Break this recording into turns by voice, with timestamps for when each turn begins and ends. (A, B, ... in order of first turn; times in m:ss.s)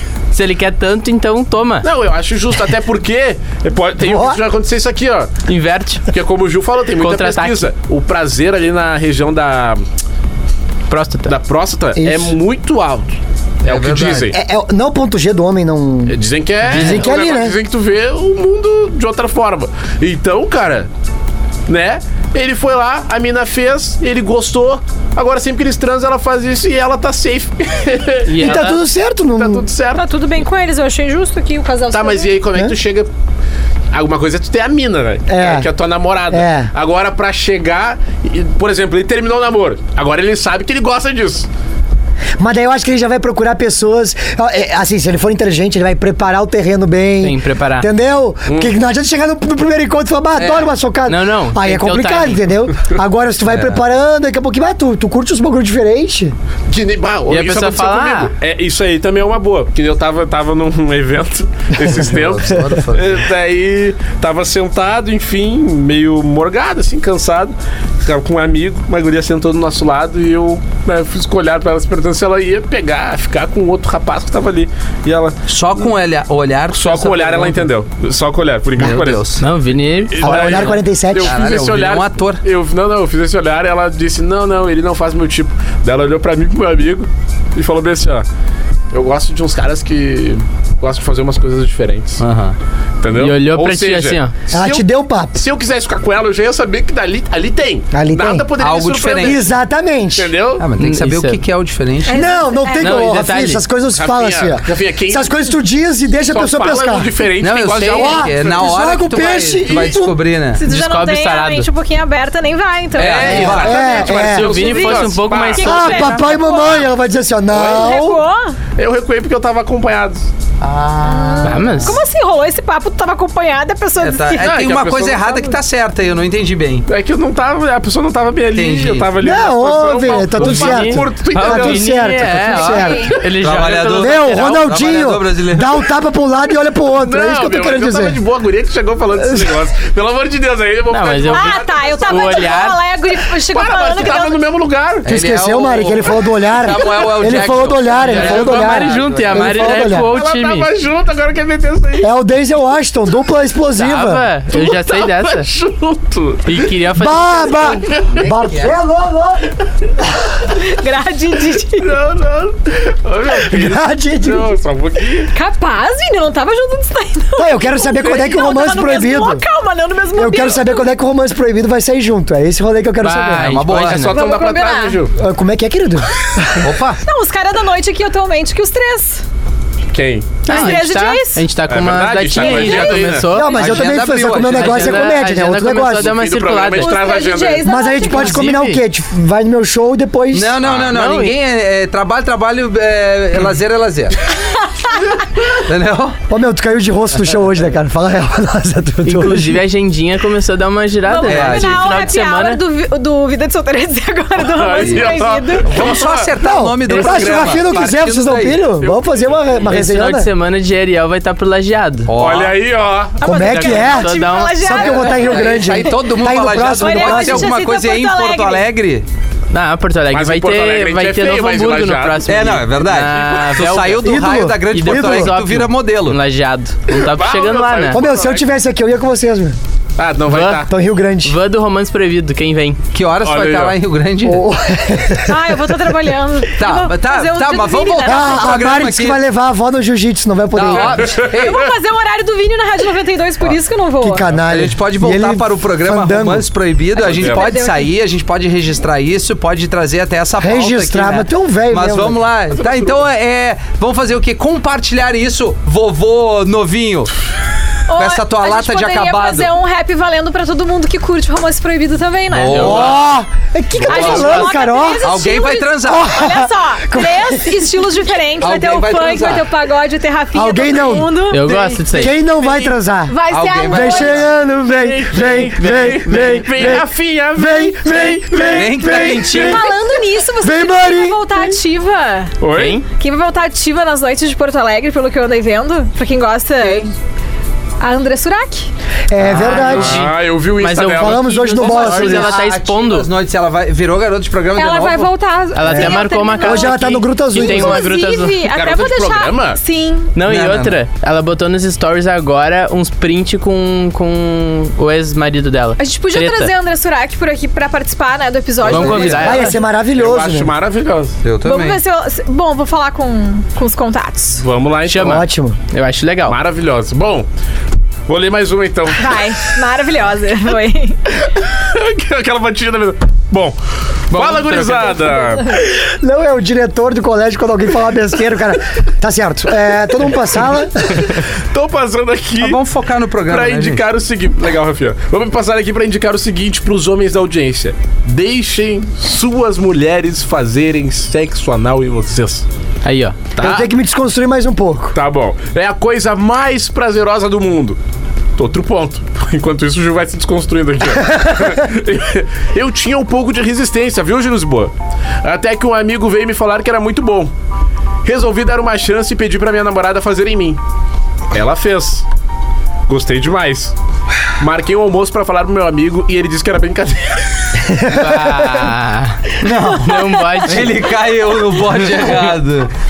0:00.3-0:01.9 A
0:01.8-0:05.3 B
0:04.0-0:04.4 C
0:05.5-0:06.0 A
0:06.1-0:09.8 B
0:07.0-0:07.7 A
0:10.9-0:11.3 A
0:11.3-0:14.4 B
0:12.0-0:12.4 C
0:13.6-0:14.3 D
0:14.3-0:17.6 C
0:16.1-0:20.9 B
0:16.7-0:17.1 A
0:21.7-0:28.7 B
0:28.3-0:28.8 A
0:28.4-0:29.7 C
0:29.4-0:30.0 B
0:29.9-0:32.4 E
0:31.9-0:33.1 B
0:33.9-0:41.5 B
0:35.3-0:35.7 C
0:36.3-0:36.7 C
0:42.4-0:56.3 C
0:47.2-0:47.9 A
0:50.4-0:50.7 D
0:51.1-0:52.4 A
0:53.5-0:53.8 D
0:56.7-1:15.4 B
0:57.3-0:58.3 A
1:01.9-1:03.1 D
1:15.5-1:17.7 D
1:16.7-1:19.3 B
1:18.8-1:19.5 D
1:19.4-1:20.5 A
1:20.1-1:28.3 B
1:20.2-1:21.4 C
1:20.3-1:20.6 D
1:21.2-1:22.4 D
1:28.9-1:32.2 B
1:32.2-1:32.6 D
1:33.0-1:39.5 B
1:33.1-1:34.3 A
1:34.5-1:35.4 C
1:37.9-1:38.5 C
1:38.6-1:39.4 D
1:39.2-1:40.3 C
1:40.2-1:40.7 B
1:40.6-1:42.3 D
1:40.8-1:41.4 A
1:42.1-1:43.3 E
1:42.1-1:47.1 C
1:42.8-1:43.6 A
1:44.0-1:45.4 B
1:46.3-1:48.8 B
1:47.4-1:50.6 D
1:47.9-1:50.2 C
1:49.6-1:50.0 B
1:50.6-1:53.6 E
1:50.6-1:51.7 A
1:53.0-1:54.1 D
1:53.0-1:55.9 B
1:53.2-1:54.7 C
1:54.1-1:56.2 A
1:54.8-1:56.9 E
1:55.6-1:58.2 C
1:57.5-1:58.0 B
1:57.6-1:58.6 E
1:58.8-2:00.3 B
2:00.6-2:02.0 D
2:01.0-2:04.7 E
2:01.4-2:02.0 A
2:04.0-2:06.8 D
2:04.4-2:05.5 B
2:06.9-2:12.2 B
2:08.5-2:09.1 D
2:09.2-2:13.2 C
2:10.4-2:14.6 A
2:12.5-2:13.2 E
2:12.7-2:15.8 D
2:14.0-2:18.2 C
2:17.0-2:22.6 B
2:19.2-2:19.6 C
2:20.9-2:22.8 A
2:21.3-2:24.4 E
2:23.4-2:25.0 B
2:25.0-2:29.8 D
2:25.1-2:30.1 C
2:28.0-2:30.7 A
2:28.1-2:28.8 B
2:29.6-2:32.1 B
2:32.0-2:34.2 C
2:33.8-2:35.5 A
2:34.5-2:36.7 B
2:36.5-2:37.8 A
2:37.0-2:40.2 C
2:38.1-2:38.8 D
2:40.5-2:41.9 E
2:41.8-2:45.3 B
2:43.3-2:44.5 C
2:45.3-2:50.9 E
2:47.4-2:49.4 C
2:50.2-2:53.6 C
2:53.0-2:54.0 A
2:53.3-2:54.2 D
2:53.6-2:55.2 B
2:54.1-2:55.0 E
2:55.2-2:56.6 C
2:56.6-2:57.0 D
2:57.0-2:59.2 E
2:59.9-3:00.8 B
3:00.5-3:03.8 A
3:00.5-3:01.4 E
3:01.7-3:03.4 B
3:02.3-3:03.2 E
3:03.3-3:06.2 C
3:03.6-3:05.2 D
3:04.4-3:06.9 A
3:05.9-3:07.7 B
3:06.8-3:08.5 E
3:07.6-3:10.6 C
3:08.0-3:08.8 A
3:10.3-3:14.2 D
3:10.6-3:10.9 B
3:10.9-3:11.4 A
3:14.4-3:15.1 E
3:15.7-3:16.2 D
3:16.3-3:19.6 C
3:19.0-3:22.6 A
3:21.0-3:25.9 E
3:21.3-3:21.9 D
3:24.4-3:26.4 B
3:25.6-3:28.6 D
3:26.4-3:30.3 C
3:26.9-3:27.3 A
3:27.2-3:27.8 B
3:28.8-3:29.8 B
3:29.7-3:32.1 A
3:32.1-3:32.6 D
3:32.2-3:33.2 B
3:33.2-3:38.7 E
3:33.2-3:37.6 C
3:33.3-3:34.8 A
3:34.7-3:39.1 D
3:39.5-3:48.0 A
3:40.1-3:42.3 B
3:42.3-3:46.2 D
3:43.1-3:43.5 B
3:44.0-3:45.3 C
3:46.9-3:48.5 B
3:47.9-3:49.6 C
3:50.0-3:50.7 B
3:50.3-3:50.6 A
3:50.7-3:51.4 C
3:51.2-3:52.8 A
3:52.9-3:54.5 D
3:53.2-3:53.8 B
3:54.2-3:55.6 C
3:55.3-3:58.9 E
3:56.6-3:59.2 D
3:58.0-4:01.2 C
4:00.5-4:01.6 D
4:00.6-4:01.5 B
4:01.2-4:04.2 E
4:04.0-4:06.5 C
4:04.5-4:17.1 D
4:07.0-4:07.9 E
4:07.0-4:07.5 B
4:10.4-4:12.2 C
4:17.9-4:23.0 E
4:18.0-4:19.5 D
4:22.3-4:23.1 D
4:22.5-4:22.9 A
4:22.6-4:25.1 C
4:23.8-4:24.4 D
4:23.9-4:32.0 E
4:23.9-4:24.5 A
4:25.0-4:26.1 D
4:25.8-4:27.7 C
4:28.4-4:29.5 D
4:30.3-4:31.2 C
4:31.3-4:32.2 A
4:31.9-4:41.6 C
4:32.4-4:32.7 B
4:33.1-4:34.3 E
4:33.3-4:34.3 D
4:34.7-4:38.7 B
4:35.1-4:36.4 A
4:38.4-4:39.7 D
4:39.3-4:42.3 E
4:42.4-4:42.8 B
4:42.5-4:42.8 A
4:43.0-4:46.9 E
4:46.6-4:46.9 D
4:47.8-4:48.7 E
4:49.1-4:50.1 C
4:49.2-4:53.1 A
4:49.5-4:52.3 B
4:51.0-4:52.4 C
4:52.0-4:55.1 D
4:54.5-5:00.1 E
4:55.5-4:58.5 A
4:55.6-4:57.8 C
4:58.5-4:59.6 B
5:00.2-5:06.5 A
5:00.2-5:00.7 D
5:05.8-5:09.4 E
5:08.6-5:09.6 A
5:08.7-5:09.4 D
5:09.2-5:10.5 C
5:09.9-5:11.2 B
5:11.2-5:11.8 D
5:11.4-5:14.4 E
5:14.4-5:15.2 B
5:14.9-5:16.4 A
5:15.0-5:15.6 C
5:16.3-5:17.3 B
5:18.1-5:19.5 B
5:19.0-5:21.0 E
5:21.6-5:23.6 B
5:24.1-5:25.6 B
5:24.1-5:25.2 A
5:25.5-5:31.2 C
5:31.0-5:32.6 B
5:32.4-5:33.8 D
5:33.3-5:42.5 B
5:42.8-5:43.2 A
5:43.3-5:43.7 B
5:43.4-5:45.0 C
5:45.0-5:47.8 B
5:48.4-5:54.7 B
5:55.2-5:57.3 B
5:58.0-6:00.6 B
6:01.3-6:02.0 B
6:02.9-6:03.7 B
6:04.4-6:07.6 B
6:07.6-6:08.8 C
6:08.0-6:10.9 A
6:09.4-6:12.7 D
6:11.8-6:12.1 A